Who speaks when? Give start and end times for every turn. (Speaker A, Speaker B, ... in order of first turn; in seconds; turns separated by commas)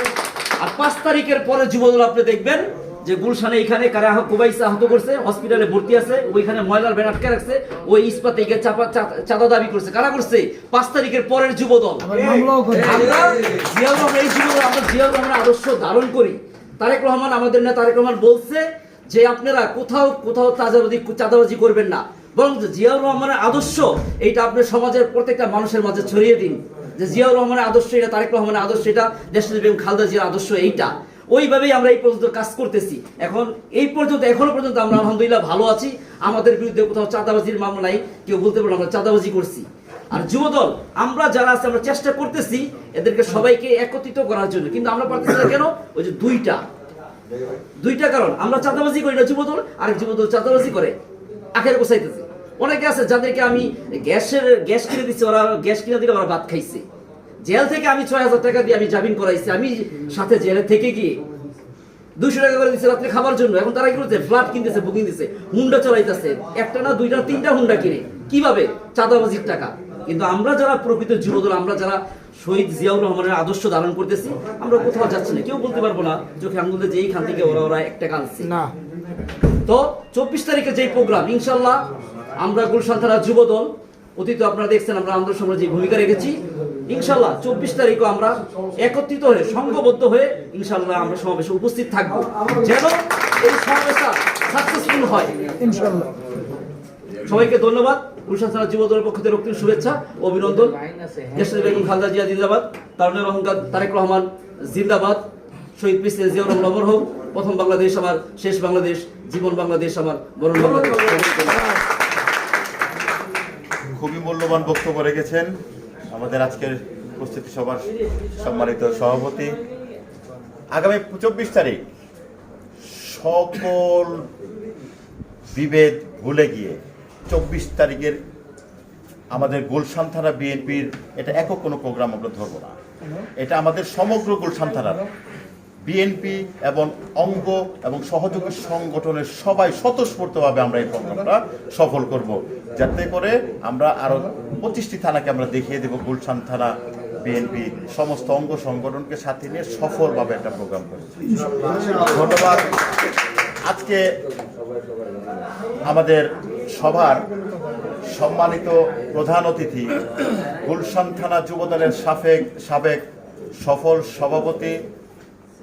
Speaker A: 0.6-46.6, Speaker B: 12.1-13.0, Speaker A: 47.8-51.0, Speaker A: 51.5-56.9, Speaker A: 57.4-61.2, Speaker A: 62.2-78.5, Speaker B: 78.5-78.7, Speaker A: 79.6-81.9, Speaker A: 82.4-95.5, Speaker B: 95.6-96.1, Speaker A: 97.2-100.8, Speaker B: 100.7-101.4, Speaker A: 101.3-105.3, Speaker A: 105.8-111.8, Speaker C: 113.9-115.5, Speaker C: 116.1-119.6, Speaker C: 120.7-121.8, Speaker C: 122.8-124.3, Speaker C: 125.5-126.8, Speaker C: 127.3-128.2, Speaker C: 129.3-132.8, Speaker C: 133.4-135.1, Speaker C: 135.8-151.2, Speaker C: 151.8-152.8, Speaker C: 153.7-154.0, Speaker C: 155.9-157.3, Speaker C: 158.1-163.0, Speaker C: 163.6-164.8